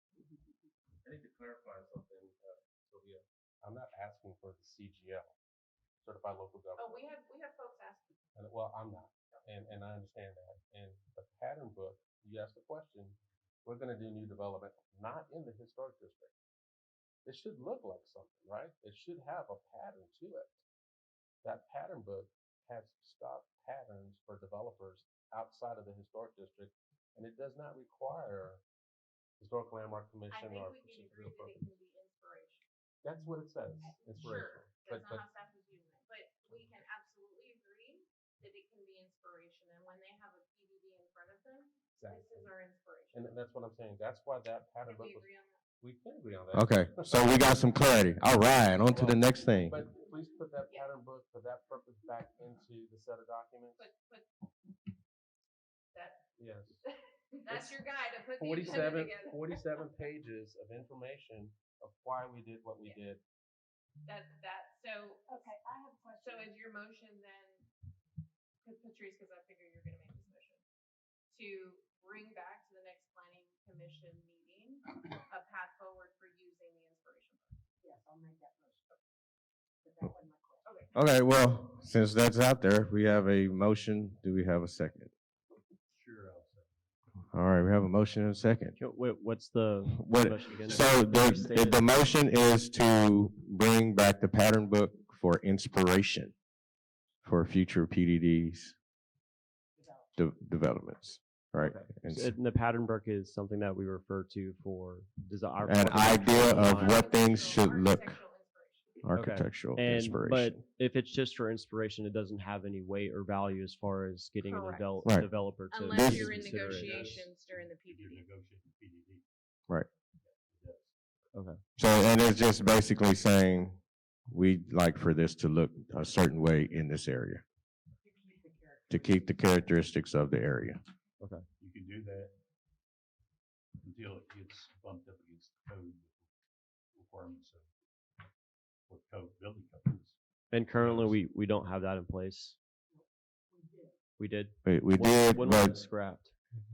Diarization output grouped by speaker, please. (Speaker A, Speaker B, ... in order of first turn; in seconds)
Speaker A: 1.0-5.3, 6.0-7.0, 8.3-16.3, 17.2-20.6, 21.4-28.6, 29.4-31.6, 33.0-35.2, 42.0-42.4, 43.1-45.3, 45.8-47.6, 48.8-53.9, 56.4-56.8, 57.5-63.2
Speaker B: 6.8-8.2, 30.3-32.6, 33.8-43.4, 44.8-45.6, 53.8-54.3, 55.9-56.3, 56.8-59.9, 64.0-65.6, 66.2-67.7, 68.6-70.6, 71.3-77.6, 80.6-80.9, 106.5-109.0, 114.4-115.0, 115.7-118.2
Speaker C: 46.5-49.8, 80.9-85.1, 87.3-88.8, 89.9-96.3, 97.2-98.7, 100.2-102.3, 105.6-108.2, 109.0-110.6, 115.0-115.3, 115.9-116.5, 121.8-127.4, 128.9-130.8, 144.6-145.8
Speaker D: 65.3-66.5, 77.8-78.9, 79.8-80.7, 99.8-100.1, 128.0-129.3, 142.9-143.9
Speaker E: 85.9-86.8, 90.5-91.3, 116.5-119.2, 120.2-120.9, 131.6-132.4, 133.8-136.3, 136.9-137.7, 138.9-140.2, 140.7-141.2
Speaker F: 88.8-91.9, 101.6-107.0, 109.1-117.2, 121.3-121.6, 131.2-131.4, 140.5-142.6, 144.2-146.3